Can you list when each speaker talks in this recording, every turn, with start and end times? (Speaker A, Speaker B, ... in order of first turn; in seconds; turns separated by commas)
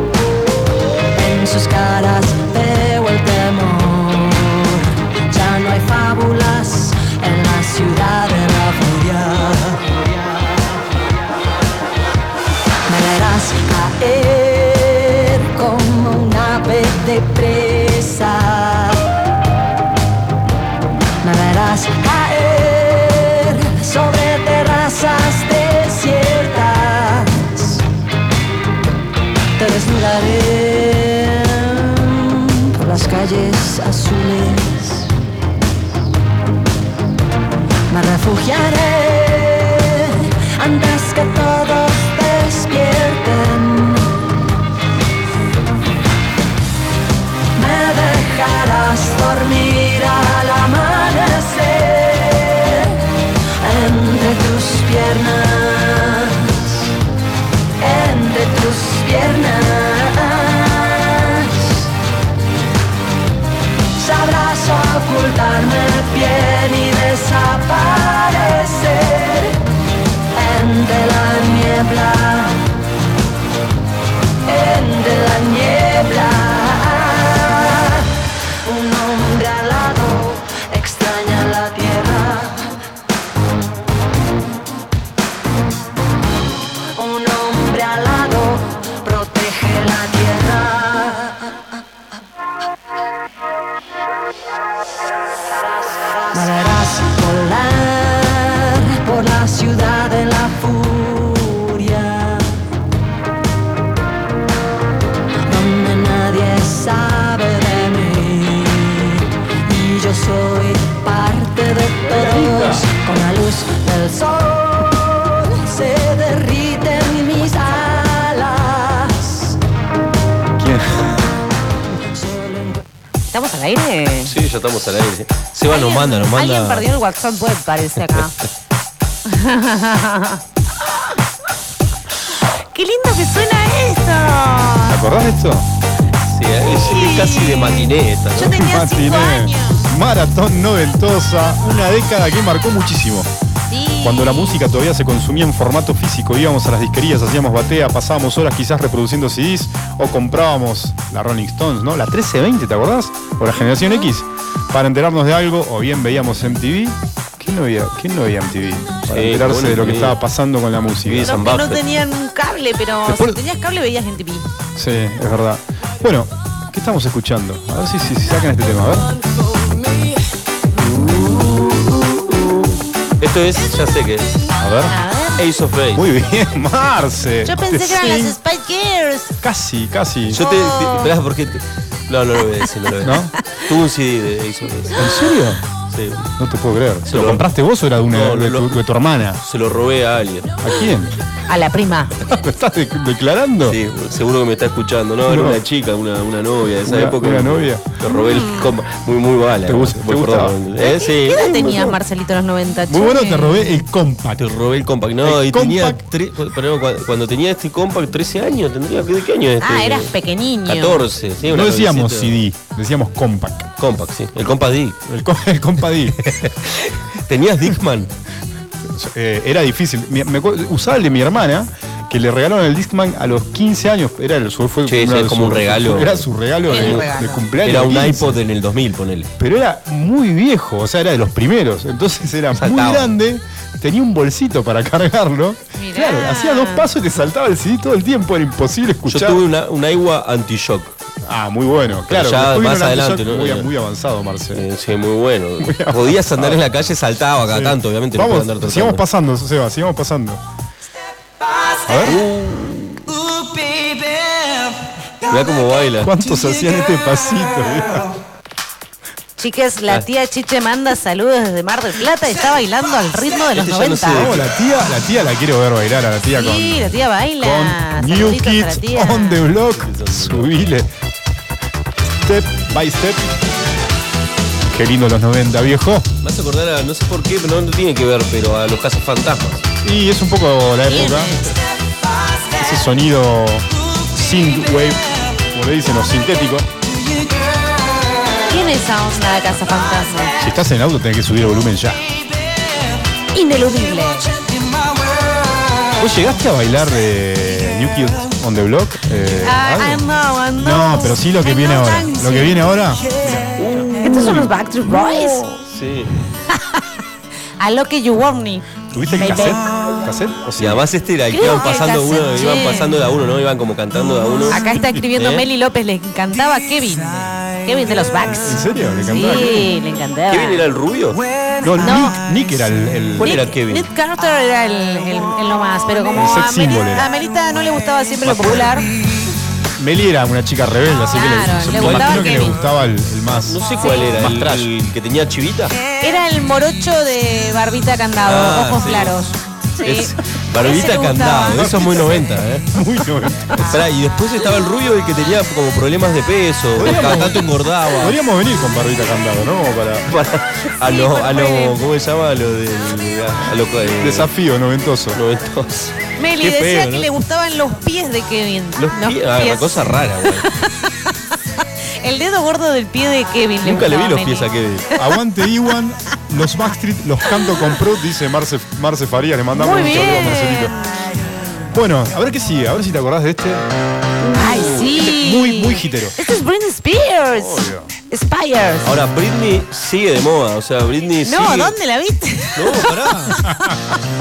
Speaker A: 1.1-10.8, Speaker A: 12.9-19.1, Speaker A: 21.2-27.8, Speaker A: 29.6-35.1, Speaker A: 37.9-44.2, Speaker A: 47.6-56.9, Speaker A: 57.8-61.9, Speaker A: 64.0-69.6, Speaker A: 70.3-72.7, Speaker A: 74.5-82.7, Speaker A: 86.9-91.5, Speaker A: 96.1-102.5, Speaker A: 105.4-119.6, Speaker B: 112.0-112.9, Speaker B: 120.6-121.2, Speaker A: 122.2-122.8, Speaker C: 123.3-124.3, Speaker D: 124.2-126.9, Speaker C: 125.7-128.4, Speaker C: 129.3-131.1, Speaker C: 132.4-135.0, Speaker B: 134.9-135.7, Speaker D: 136.3-138.6, Speaker C: 136.7-139.9, Speaker B: 138.4-143.3, Speaker C: 143.7-144.6, Speaker B: 144.0-161.5, Speaker C: 153.6-154.1, Speaker D: 159.1-160.2, Speaker D: 161.0-161.8, Speaker C: 161.2-164.5, Speaker B: 163.1-163.4, Speaker B: 164.8-169.1, Speaker D: 170.8-174.3, Speaker B: 174.6-174.9, Speaker C: 174.9-175.4, Speaker D: 175.4-176.1, Speaker B: 175.9-178.4, Speaker C: 177.4-179.3, Speaker B: 179.4-180.4, Speaker D: 180.3-185.1, Speaker C: 180.3-181.1, Speaker B: 183.0-183.3, Speaker B: 184.9-185.6, Speaker D: 185.9-186.3, Speaker B: 186.4-189.4, Speaker D: 187.1-187.4, Speaker D: 188.1-188.8, Speaker D: 189.4-190.6, Speaker B: 190.6-191.1, Speaker C: 191.5-192.2, Speaker B: 192.3-193.8, Speaker D: 193.7-202.0, Speaker B: 195.3-195.6, Speaker B: 196.9-197.8, Speaker C: 198.1-198.7, Speaker B: 199.7-200.6, Speaker C: 200.8-203.8, Speaker B: 202.9-204.6, Speaker D: 204.4-210.1, Speaker B: 205.2-206.0, Speaker C: 209.6-211.0, Speaker D: 210.7-212.4, Speaker B: 211.4-213.7, Speaker D: 213.8-215.0, Speaker B: 215.1-216.2, Speaker D: 216.2-218.1, Speaker B: 218.8-228.4, Speaker D: 224.9-227.1, Speaker C: 226.7-227.4, Speaker D: 227.6-229.3, Speaker B: 229.4-239.4, Speaker D: 232.5-233.2, Speaker C: 235.8-236.9, Speaker D: 239.1-240.9, Speaker B: 241.2-244.7, Speaker D: 242.1-243.7, Speaker D: 244.5-249.0, Speaker B: 245.6-246.6, Speaker B: 247.5-250.4, Speaker B: 251.9-252.2, Speaker D: 252.0-253.2, Speaker D: 255.3-256.1, Speaker B: 256.0-258.1, Speaker C: 259.4-264.3, Speaker D: 263.5-264.5, Speaker B: 264.1-270.9, Speaker C: 266.3-269.4, Speaker D: 269.6-270.7, Speaker B: 272.2-273.4, Speaker B: 274.7-276.1, Speaker D: 276.2-279.6, Speaker B: 279.8-281.4, Speaker C: 280.9-281.6, Speaker B: 282.6-286.7, Speaker C: 288.5-290.4, Speaker B: 290.4-292.1, Speaker C: 293.3-294.3, Speaker B: 296.0-304.5, Speaker C: 299.4-302.7, Speaker D: 303.6-304.4, Speaker C: 303.9-305.6, Speaker D: 305.7-306.1, Speaker C: 306.5-306.8, Speaker C: 307.6-309.6, Speaker B: 308.9-310.9, Speaker D: 310.6-314.6, Speaker C: 311.3-312.9, Speaker C: 314.5-320.6, Speaker D: 315.2-315.5, Speaker B: 318.2-319.7, Speaker D: 320.3-321.2, Speaker B: 321.6-323.4, Speaker C: 321.8-322.2, Speaker D: 323.2-323.9, Speaker C: 323.2-328.9, Speaker B: 326.1-327.1, Speaker B: 328.2-328.7, Speaker B: 329.8-334.7, Speaker C: 331.1-332.6, Speaker D: 331.8-332.6, Speaker D: 333.3-335.8, Speaker C: 333.8-334.1, Speaker C: 336.0-342.0, Speaker D: 338.2-339.2, Speaker D: 339.8-342.7, Speaker B: 341.6-343.8, Speaker D: 343.6-348.2, Speaker B: 346.8-350.1, Speaker D: 350.1-354.3, Speaker C: 350.8-351.8, Speaker B: 354.0-355.2, Speaker D: 355.1-357.1, Speaker C: 356.2-361.1, Speaker D: 358.8-360.5, Speaker C: 362.0-365.0, Speaker D: 363.6-364.9, Speaker B: 365.0-370.7, Speaker C: 369.5-371.7, Speaker B: 371.7-373.6, Speaker C: 374.2-378.9, Speaker B: 374.4-376.1, Speaker B: 377.3-377.9, Speaker D: 378.8-381.8, Speaker C: 381.2-383.7, Speaker D: 382.6-383.4, Speaker B: 383.4-383.8